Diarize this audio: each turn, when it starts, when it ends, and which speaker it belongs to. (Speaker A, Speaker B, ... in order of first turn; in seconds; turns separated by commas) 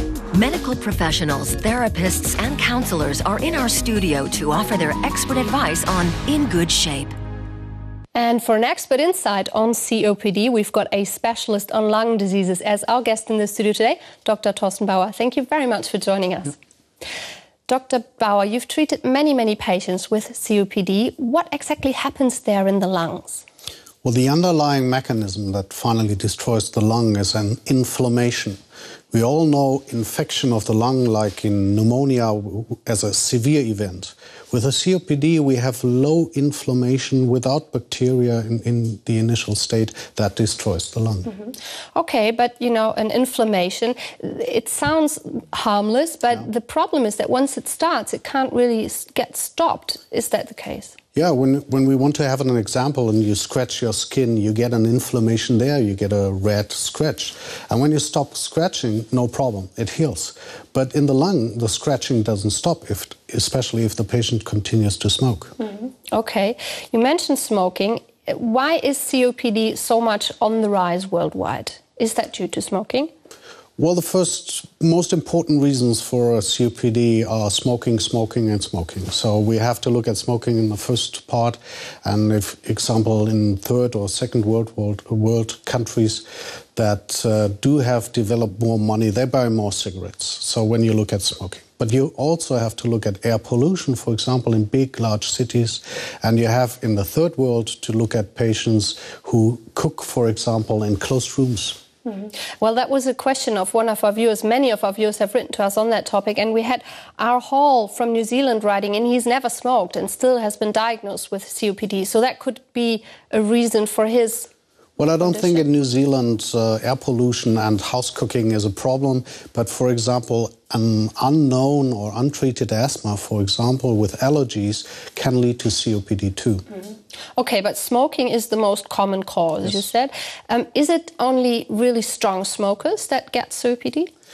Speaker A: 0.3-7.1, Speaker B: 8.1-16.6, Speaker B: 17.7-23.4, Speaker C: 24.0-28.6, Speaker C: 29.1-41.3, Speaker B: 42.0-50.9, Speaker C: 51.1-65.5, Speaker B: 65.6-73.1, Speaker C: 73.8-101.8, Speaker B: 102.0-114.5, Speaker C: 115.0-126.6, Speaker B: 115.2-115.6, Speaker B: 127.4-134.1